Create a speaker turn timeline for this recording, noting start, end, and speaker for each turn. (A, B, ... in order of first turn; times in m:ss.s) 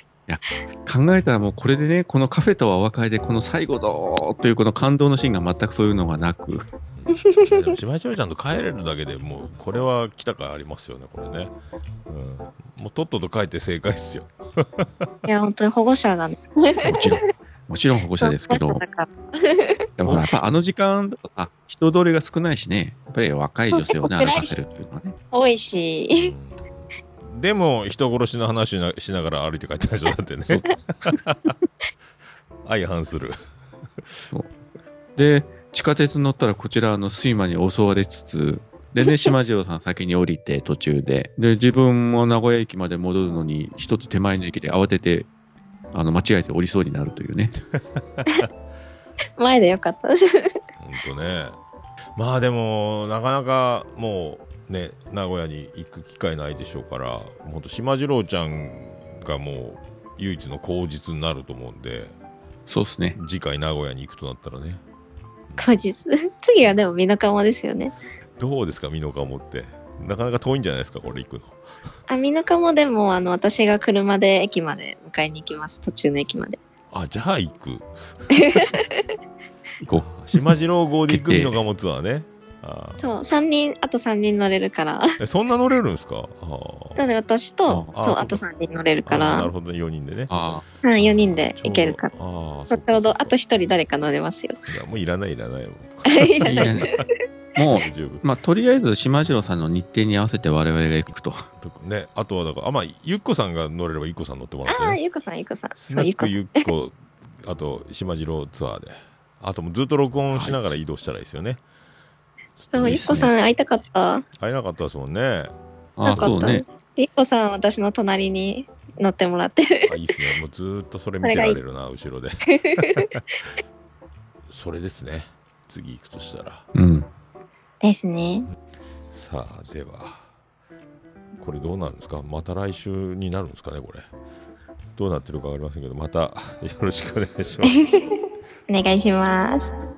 0:00.3-0:06.6 A
0:07.0-0:11.5 B
0:07.2-0:07.7 C
0:12.1-0:14.8 B
0:15.2-0:17.1 C
0:16.8-0:18.8 A
0:18.2-0:19.8 C
0:20.0-0:25.2 A
0:23.8-0:24.6 C
0:25.3-0:26.3 C
0:26.1-0:26.6 B
0:27.3-0:31.6 B
0:32.7-0:33.4 B
0:35.2-0:45.3 A
0:45.9-0:47.6 A
0:48.0-0:48.5 B
0:49.4-0:50.6 C
0:50.8-0:51.6 B
0:52.2-1:02.1 B
1:02.7-1:03.2 A
1:03.2-1:04.8 B
1:05.5-1:05.8 B
1:05.6-1:07.9 C
1:08.4-1:11.6 B
1:12.1-1:16.6 C
1:16.9-1:18.7 B
1:18.4-1:19.0 C
1:19.8-1:20.5 A
1:20.1-1:23.2 B
1:21.1-1:21.6 A
1:23.0-1:25.1 C
1:25.2-1:27.0 B
1:27.0-1:29.5 C
1:28.0-1:28.4 B
1:29.0-1:33.4 B
1:30.3-1:30.6 A
1:30.8-1:32.1 C
1:32.7-1:34.6 C
1:34.7-1:37.0 B
1:36.1-1:37.0 C
1:36.4-1:36.9 A
1:37.6-1:41.4 A
1:37.8-1:38.2 B
1:41.6-1:45.0 B
1:44.7-1:46.6 C
1:45.8-1:51.6 B
1:50.3-1:50.8 A
1:52.6-1:53.1 B
1:52.7-1:54.2 C
1:52.8-1:53.3 A
1:54.4-1:55.5 B
1:56.0-1:56.6 A
1:56.1-2:00.0 C
1:56.1-1:56.5 B
1:59.9-2:03.2 B
2:01.2-2:01.6 C
2:02.5-2:03.1 C
2:04.5-2:06.6 B
2:06.8-2:07.1 A
2:07.8-2:08.5 C
2:09.1-2:10.3 B
2:11.4-2:14.1 B
2:15.0-2:17.8 B
2:17.7-2:18.0 C
2:18.7-2:19.7 C